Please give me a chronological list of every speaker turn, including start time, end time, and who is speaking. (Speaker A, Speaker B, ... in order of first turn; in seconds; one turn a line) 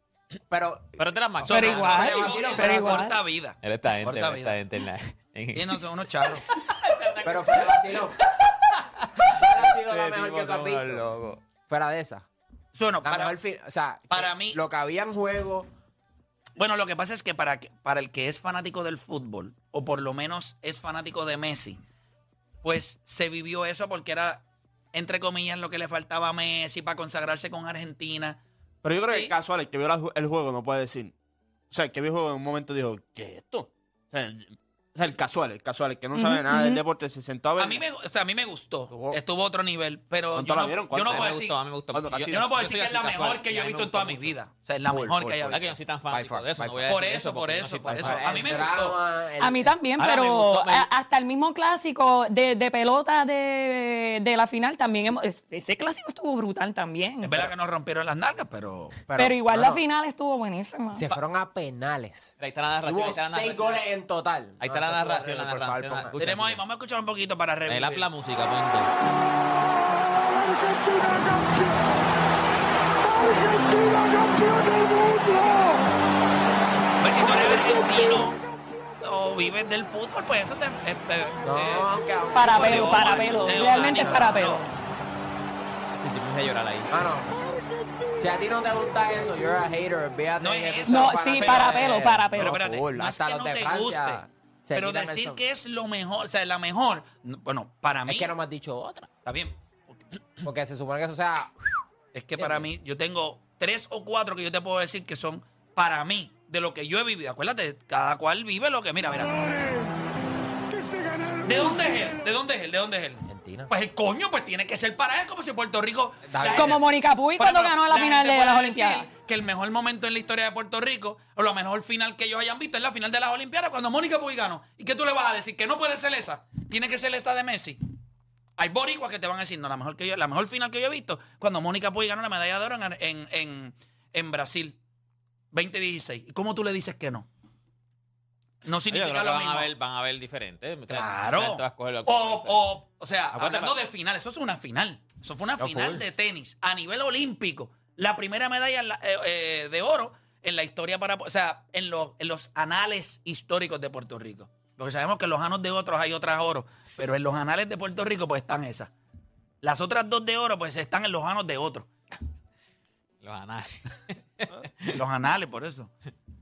Speaker A: 0.5-1.1
Speaker B: 1.0-2.3
Speaker C: 1.5-4.6
Speaker D: 1.5-3.2
Speaker A: 1.6-3.0
Speaker B: 3.6-11.4
Speaker C: 5.5-6.5
Speaker A: 7.2-8.2
Speaker A: 9.2-12.3
Speaker C: 12.8-13.4
Speaker A: 13.0-15.7
Speaker C: 14.1-14.6
Speaker C: 16.6-21.8
Speaker C: 22.6-28.4
Speaker E: 28.8-31.1
Speaker C: 29.1-29.3
Speaker E: 31.7-37.8
Speaker D: 36.1-36.8
Speaker C: 37.6-41.6
Speaker E: 38.9-39.2
Speaker E: 40.3-42.6
Speaker B: 41.0-44.4
Speaker C: 42.3-45.7
Speaker E: 45.0-45.7
Speaker B: 45.5-48.6
Speaker A: 46.1-46.9
Speaker C: 46.9-49.0
Speaker A: 47.9-49.7
Speaker D: 49.4-57.5
Speaker B: 50.0-50.9
Speaker C: 57.2-59.0
Speaker A: 59.1-59.8
Speaker D: 59.2-61.0
Speaker A: 60.9-62.3
Speaker B: 62.4-63.8
Speaker A: 62.9-66.2
Speaker B: 64.6-66.6
Speaker C: 66.2-68.1
Speaker B: 67.7-68.9
Speaker C: 77.0-78.5
Speaker C: 79.0-81.9
Speaker A: 81.4-84.5
Speaker D: 82.3-84.7
Speaker C: 82.4-84.7
Speaker B: 86.0-86.9
Speaker A: 86.9-87.4
Speaker A: 88.2-95.4
Speaker C: 90.4-98.3
Speaker D: 90.9-92.5
Speaker A: 98.1-99.1
Speaker C: 99.2-99.6
Speaker A: 100.4-101.5
Speaker C: 102.1-109.4
Speaker A: 102.4-102.7
Speaker C: 111.4-116.9
Speaker A: 113.2-113.7
Speaker A: 116.3-116.8
Speaker D: 116.5-119.1
Speaker C: 117.4-127.8
Speaker C: 128.6-134.8
Speaker C: 135.5-137.3
Speaker C: 138.7-139.7
Speaker B: 138.9-142.6
Speaker C: 140.9-158.9
Speaker A: 145.6-146.0
Speaker C: 159.6-161.9
Speaker B: 163.2-165.0
Speaker C: 164.9-165.9